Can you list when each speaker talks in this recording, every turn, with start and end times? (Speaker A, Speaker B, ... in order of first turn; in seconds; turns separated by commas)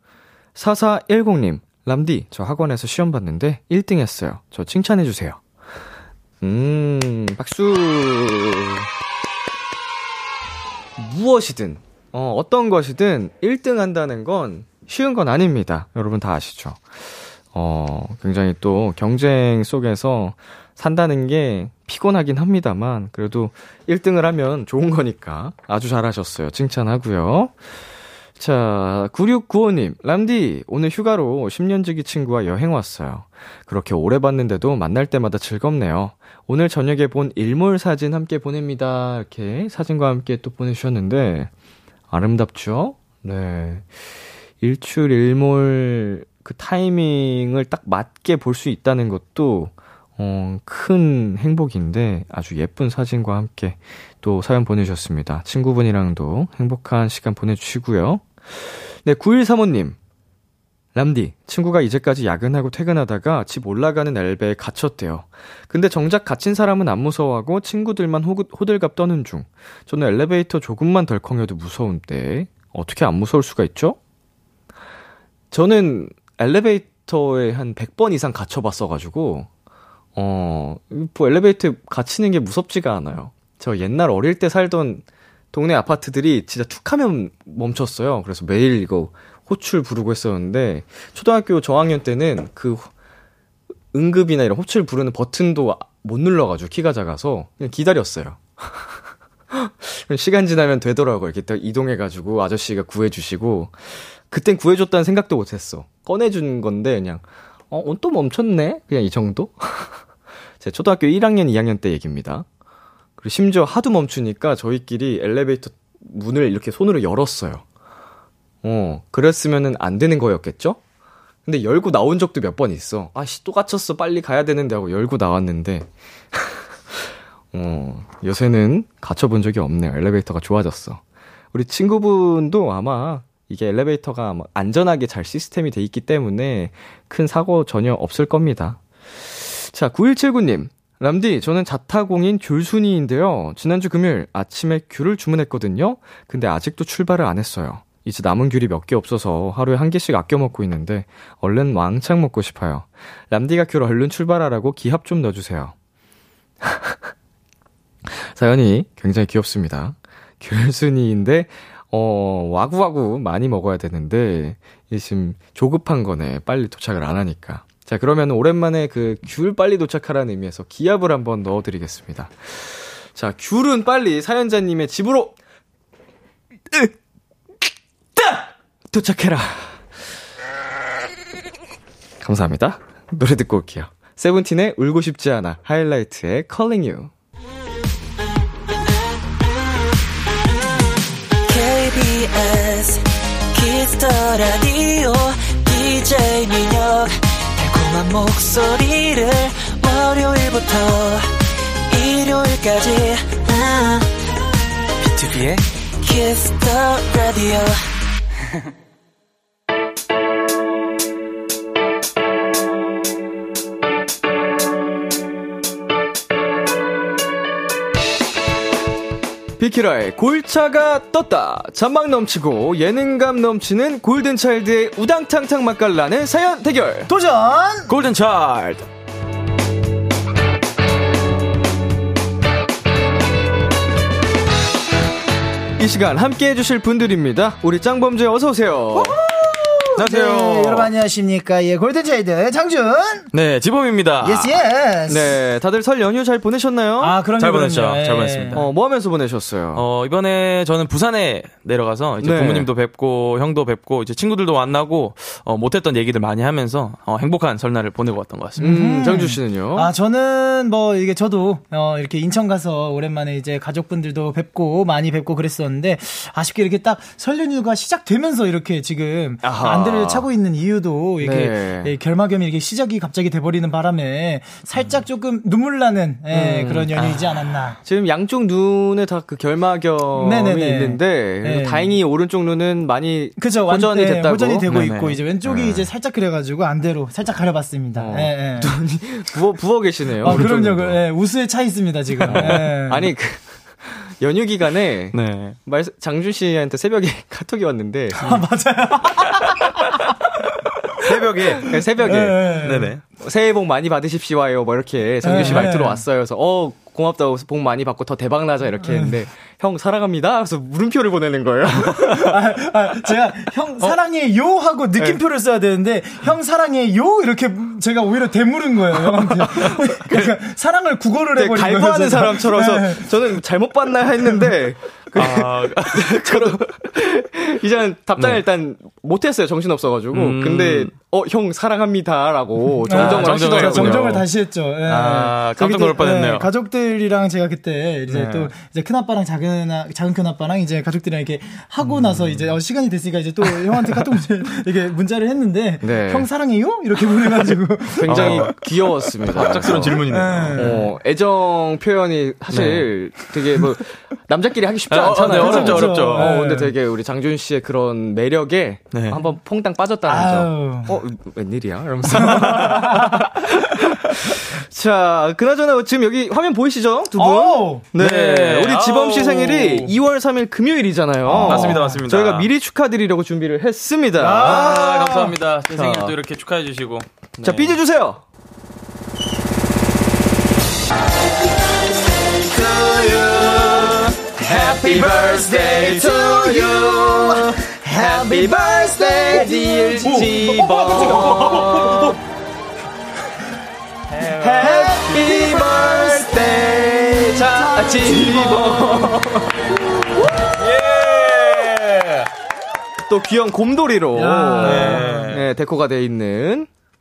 Speaker A: 0.5-5.4, Speaker A: 6.4-8.9, Speaker A: 11.0-16.8, Speaker A: 17.5-27.5, Speaker A: 28.4-41.5, Speaker A: 42.1-43.9, Speaker A: 44.6-60.0, Speaker A: 60.9-74.0, Speaker A: 75.5-79.5, Speaker A: 80.2-92.9, Speaker A: 93.9-98.9, Speaker A: 99.5-110.0, Speaker A: 110.6-112.5, Speaker A: 113.2-117.6, Speaker A: 118.6-120.8, Speaker A: 121.5-131.0, Speaker A: 131.5-155.7, Speaker A: 156.6-157.1, Speaker A: 158.1-175.3, Speaker A: 178.2-179.8, Speaker A: 182.2-187.1, Speaker B: 191.4-201.3, Speaker B: 201.9-204.1, Speaker B: 205.0-207.8, Speaker A: 219.6-227.1, Speaker C: 227.1-227.9, Speaker D: 227.9-228.8, Speaker A: 235.8-239.2, Speaker C: 238.9-243.3, Speaker D: 239.9-240.9, Speaker D: 243.3-244.6, Speaker C: 244.2-245.3, Speaker A: 245.1-247.2, Speaker C: 247.0-248.6, Speaker D: 247.4-248.7, Speaker A: 248.5-249.8, Speaker D: 249.7-258.7, Speaker A: 252.2-252.7, Speaker A: 258.6-259.9, Speaker C: 258.6-277.8, Speaker A: 269.4-270.3, Speaker A: 271.2-271.9, Speaker A: 276.3-276.9, Speaker D: 276.9-277.2, Speaker A: 277.8-284.7, Speaker C: 280.1-281.9, Speaker C: 283.4-288.7, Speaker D: 284.7-285.2, Speaker A: 285.4-285.9, Speaker A: 287.9-291.0, Speaker C: 290.2-293.1, Speaker D: 292.2-292.6, Speaker A: 292.3-298.4, Speaker D: 295.1-295.6, Speaker C: 298.2-299.9, Speaker D: 301.0-301.8, Speaker A: 301.3-302.6, Speaker C: 302.0-302.9, Speaker D: 302.6-303.0, Speaker A: 303.2-312.4, Speaker C: 305.2-306.0, Speaker C: 308.8-309.1, Speaker C: 311.9-323.1, Speaker A: 319.1-320.3, Speaker A: 321.3-334.1, Speaker D: 325.1-326.7, Speaker D: 330.1-330.9, Speaker C: 332.9-348.5, Speaker D: 332.9-334.2, Speaker D: 334.9-336.5, Speaker D: 338.1-338.5, Speaker A: 345.8-346.3, Speaker A: 347.9-374.8, Speaker D: 348.0-350.8, Speaker C: 349.7-350.9, Speaker D: 352.5-353.1, Speaker D: 354.9-356.4, Speaker C: 355.2-356.7, Speaker D: 358.9-359.2, Speaker C: 360.1-361.0, Speaker C: 362.2-363.3, Speaker C: 367.1-367.8, Speaker D: 367.9-369.9, Speaker C: 371.2-372.0, Speaker D: 371.4-372.5, Speaker C: 374.2-375.3, Speaker D: 374.4-377.8, Speaker A: 375.7-376.1, Speaker A: 377.4-378.2, Speaker A: 382.3-392.2, Speaker C: 384.4-391.4, Speaker D: 384.7-385.1, Speaker D: 390.0-392.2, Speaker D: 394.1-395.2, Speaker A: 394.4-399.7, Speaker C: 394.6-399.1, Speaker D: 400.3-402.3, Speaker A: 403.0-406.7, Speaker C: 404.1-405.3, Speaker D: 404.6-405.4